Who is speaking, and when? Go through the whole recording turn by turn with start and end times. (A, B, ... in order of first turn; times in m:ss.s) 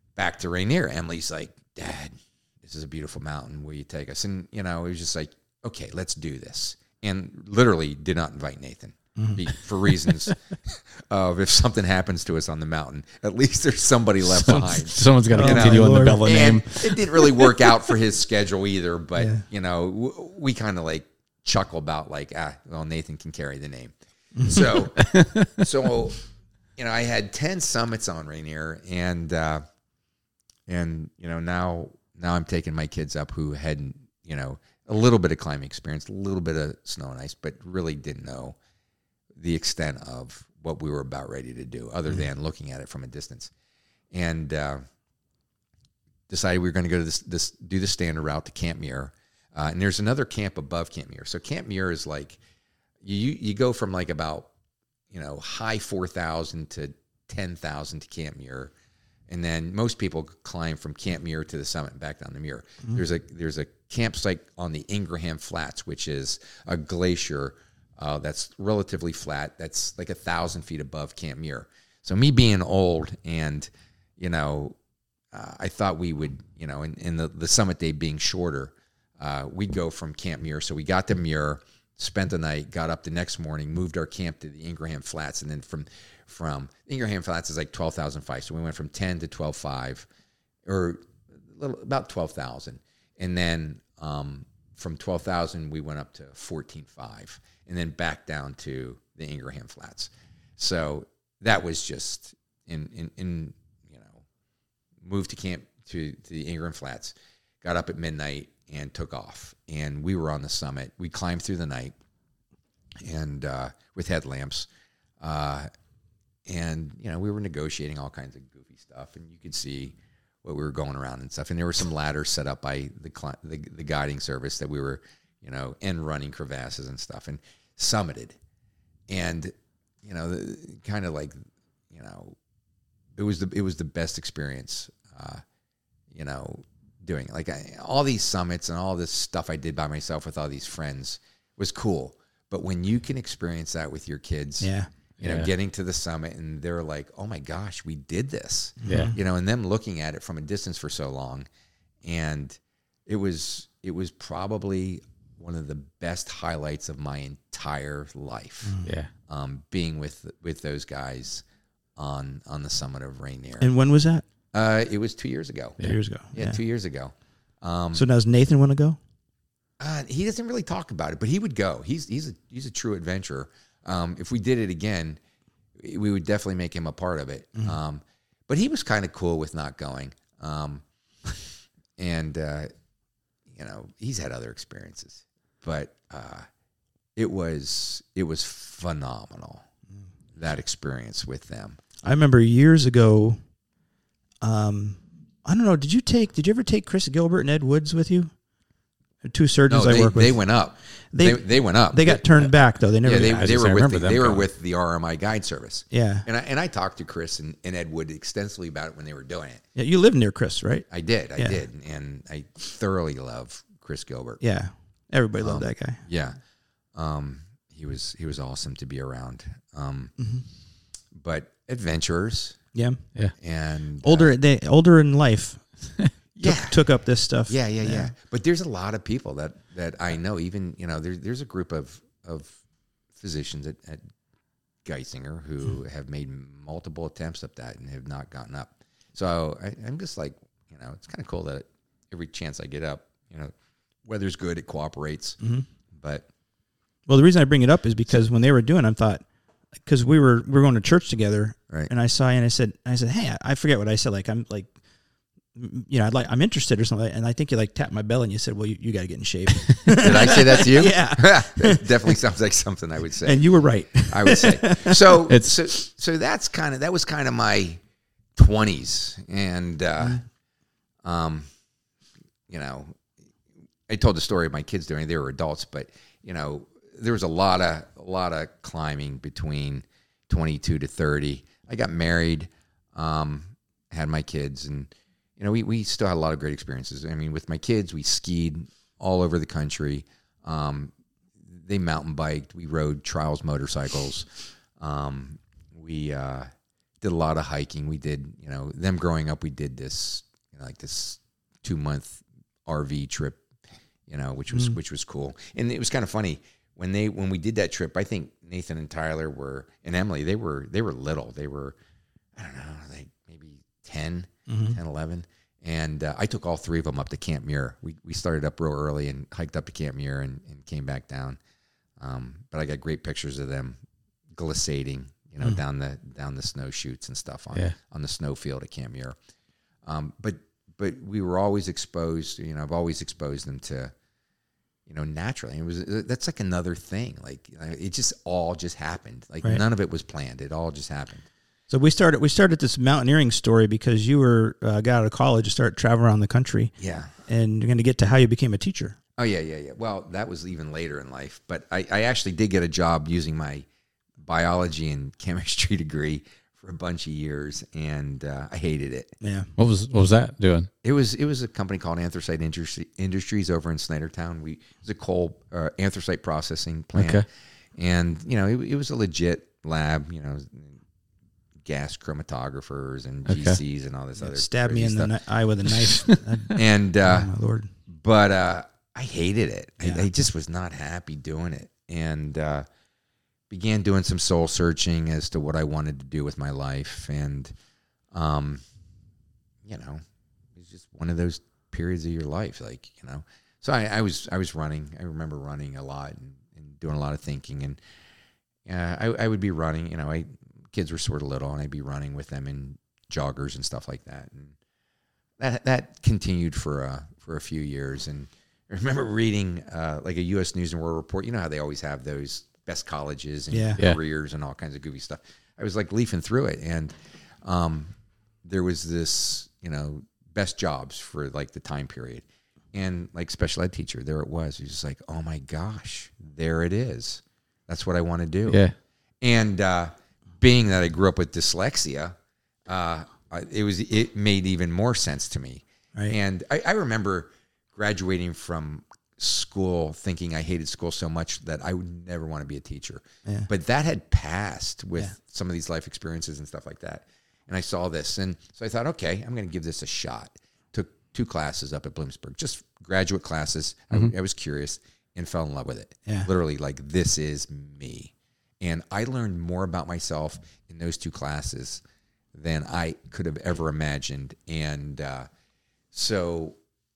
0:00.2-0:26.2 A
0:09.2-0:09.4 B
0:14.4-0:17.2 C
0:15.3-0:16.3 B
0:19.2-0:19.4 B
0:24.4-0:24.7 B
0:25.0-0:25.6 C
0:26.8-0:29.6 A
0:30.7-0:38.6 A
0:39.4-0:43.5 A
0:44.1-0:44.8 A
0:46.3-0:52.4 A
0:53.0-0:54.5 A
0:55.1-0:58.7 A
0:59.3-1:14.8 A
1:15.3-1:30.1 A
1:30.6-1:44.2 A
1:45.0-1:52.0 A
1:53.0-1:54.7 A
1:55.2-1:55.7 A
1:56.5-2:08.4 A
2:09.1-2:11.4 A
2:11.9-2:12.4 A
2:13.2-2:15.4 A
2:16.1-2:31.5 A
2:24.6-2:24.9 B
2:25.2-2:25.5 C
2:28.8-2:29.2 B
2:28.9-2:29.1 C
2:32.0-2:41.4 A
2:38.6-2:38.9 B
2:38.8-2:39.1 C
2:42.0-2:43.7 A
2:43.6-2:44.2 B
2:44.5-2:45.8 A
2:45.8-2:46.6 B
2:46.3-2:48.1 A
2:47.9-2:49.0 B
2:49.8-2:55.2 A
2:55.8-3:00.8 A
3:02.0-3:02.7 A
3:03.5-3:06.5 A
3:07.2-3:09.6 A
3:10.4-3:11.8 A
3:12.0-3:13.4 B
3:14.4-3:18.3 B
3:19.2-3:20.6 B
3:19.7-3:29.6 A
3:21.1-3:23.5 B
3:22.9-3:24.5 C
3:25.9-3:26.3 B
3:29.8-3:31.6 B
3:30.9-3:34.4 A
3:34.4-3:36.0 B
3:35.4-3:36.4 A
3:37.0-3:40.1 A
3:40.2-3:40.5 B
3:41.1-3:42.6 A
3:42.8-3:43.0 B
3:43.4-3:44.3 A
3:44.0-3:45.7 B
3:46.4-3:46.8 A
3:46.4-3:48.1 B
3:47.5-3:52.6 A
3:53.2-3:54.1 A
3:54.8-4:03.5 A
4:04.0-4:05.4 A
4:05.4-4:05.7 B
4:05.9-4:06.3 A
4:07.1-4:09.2 B
4:09.8-4:14.7 B
4:15.6-4:22.0 B
4:19.9-4:23.4 A
4:23.2-4:25.2 B
4:24.0-4:27.8 A
4:25.3-4:25.6 C
4:28.4-4:30.2 A
4:31.0-4:31.5 A
4:32.5-4:33.0 A
4:33.9-4:54.3 A
4:54.8-5:03.4 A
5:04.1-5:11.8 A
5:12.4-5:21.4 A
5:14.5-5:14.8 B
5:22.0-5:23.8 A
5:24.3-5:29.2 A
5:29.8-5:33.9 A
5:34.9-5:41.3 A
5:41.7-5:46.7 B
5:46.8-5:47.1 A
5:47.3-5:49.0 B
5:49.2-5:53.7 A
5:54.2-5:59.2 A
5:59.2-5:59.5 B
5:59.6-6:00.7 C
6:00.8-6:07.2 A
6:07.0-6:07.2 C
6:07.8-6:10.8 A
6:11.6-6:15.1 A
6:13.3-6:13.6 C
6:14.2-6:17.7 B
6:15.9-6:16.1 C
6:16.6-6:17.3 A
6:17.9-6:22.6 A
6:19.8-6:20.1 B
6:23.5-6:27.5 A
6:28.1-6:28.6 A
6:29.6-6:30.0 A
6:30.6-6:37.8 A
6:38.7-6:44.6 A
6:45.4-6:57.9 A
6:53.5-6:53.8 B
6:58.4-7:08.6 A
7:08.5-7:08.8 C
7:09.2-7:12.2 A
7:12.7-7:41.8 A
7:42.3-7:45.3 A
7:45.9-7:46.6 A